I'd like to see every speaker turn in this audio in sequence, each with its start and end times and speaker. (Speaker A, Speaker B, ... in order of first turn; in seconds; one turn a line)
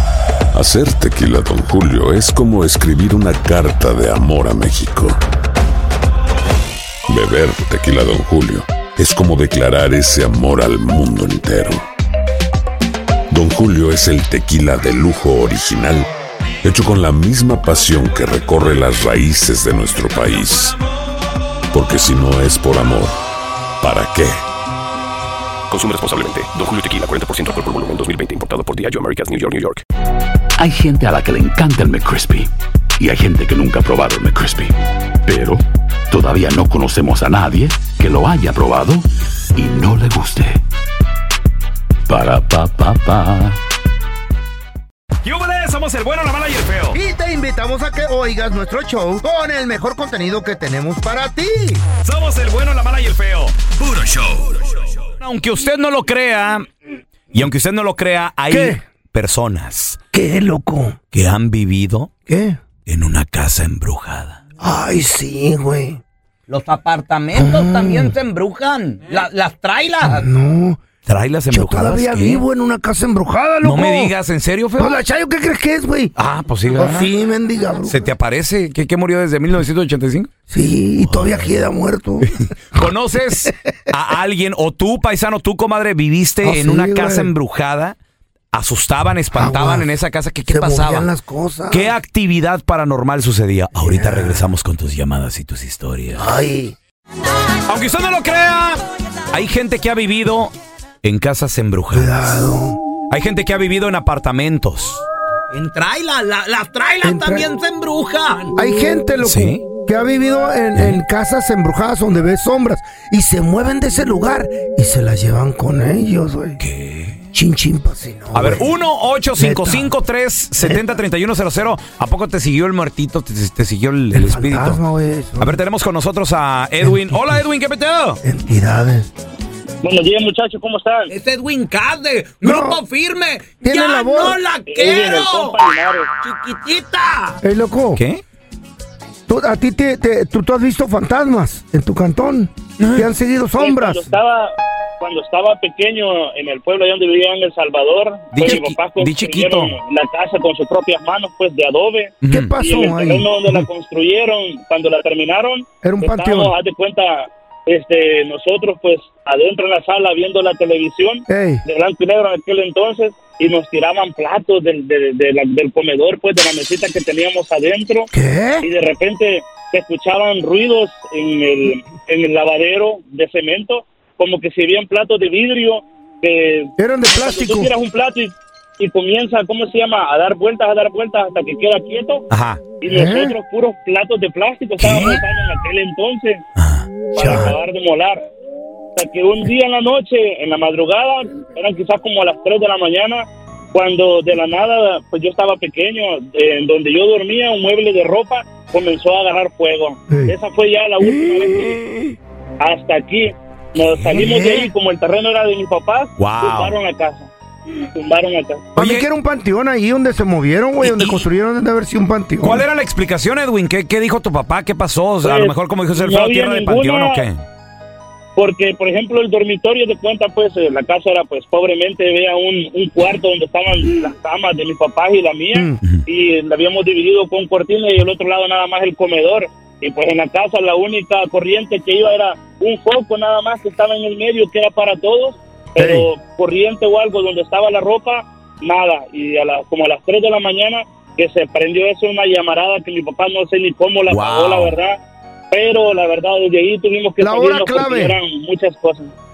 Speaker A: 0.5-5.2
Speaker A: 7.1-11.8
Speaker A: 13.3-16.1
Speaker A: 16.6-20.8
Speaker A: 21.7-23.1
Speaker A: 23.8-24.4
Speaker B: 25.7-29.8
Speaker C: 30.6-34.7
Speaker C: 35.3-40.6
Speaker C: 42.1-43.6
Speaker D: 45.2-47.0
Speaker E: 46.9-51.8
Speaker D: 52.0-56.7
Speaker D: 57.3-60.0
Speaker E: 58.5-58.8
Speaker E: 60.1-61.0
Speaker D: 61.1-62.1
Speaker E: 62.3-62.6
Speaker D: 62.9-64.4
Speaker E: 64.6-66.0
Speaker F: 66.5-70.2
Speaker E: 67.3-68.1
Speaker E: 70.0-70.8
Speaker D: 71.0-72.4
Speaker E: 71.5-74.1
Speaker D: 73.6-75.0
Speaker E: 74.8-76.1
Speaker D: 76.2-77.1
Speaker E: 76.7-78.1
Speaker D: 77.8-80.3
Speaker E: 80.5-82.9
Speaker D: 81.0-81.5
Speaker D: 82.4-88.0
Speaker E: 86.4-87.3
Speaker D: 88.5-91.1
Speaker E: 89.3-89.9
Speaker E: 90.5-91.9
Speaker D: 91.7-96.2
Speaker E: 93.8-94.4
Speaker E: 96.1-96.7
Speaker D: 97.7-98.8
Speaker D: 99.3-102.3
Speaker E: 101.9-102.8
Speaker D: 103.1-105.0
Speaker F: 105.5-108.5
Speaker E: 107.0-107.5
Speaker E: 108.5-116.6
Speaker D: 109.2-109.6
Speaker D: 116.6-117.3
Speaker E: 117.3-118.7
Speaker D: 118.3-124.8
Speaker E: 119.4-119.9
Speaker E: 124.1-125.6
Speaker D: 125.4-128.2
Speaker E: 126.8-127.4
Speaker E: 128.2-129.1
Speaker G: 129.8-131.1
Speaker F: 131.1-135.6
Speaker E: 132.4-132.8
Speaker E: 133.6-134.4
Speaker G: 134.7-136.1
Speaker F: 136.2-137.4
Speaker E: 137.4-138.0
Speaker D: 137.9-138.2
Speaker E: 139.3-144.1
Speaker D: 142.8-143.1
Speaker G: 143.6-168.1
Speaker D: 148.3-149.8
Speaker D: 152.2-152.6
Speaker E: 152.3-153.6
Speaker E: 155.8-156.5
Speaker E: 161.3-161.6
Speaker E: 168.1-168.7
Speaker G: 168.6-182.3
Speaker E: 176.8-177.7
Speaker D: 182.3-182.7
Speaker G: 182.8-186.4
Speaker E: 182.8-183.3
Speaker D: 184.8-185.2
Speaker D: 186.6-186.9
Speaker G: 187.1-188.2
Speaker E: 187.2-187.6
Speaker G: 188.9-201.8
Speaker E: 200.1-200.3
Speaker E: 201.0-202.2
Speaker G: 202.6-207.3
Speaker D: 203.9-204.2
Speaker E: 204.1-204.7
Speaker D: 206.2-206.8
Speaker G: 207.9-208.7
Speaker D: 208.8-209.1
Speaker E: 208.8-212.6
Speaker D: 210.8-211.2
Speaker D: 212.4-217.4
Speaker G: 215.2-217.2
Speaker G: 218.3-245.0
Speaker E: 225.5-225.8
Speaker E: 235.8-236.1
Speaker D: 244.1-244.7
Speaker G: 245.5-249.1
Speaker E: 247.2-248.2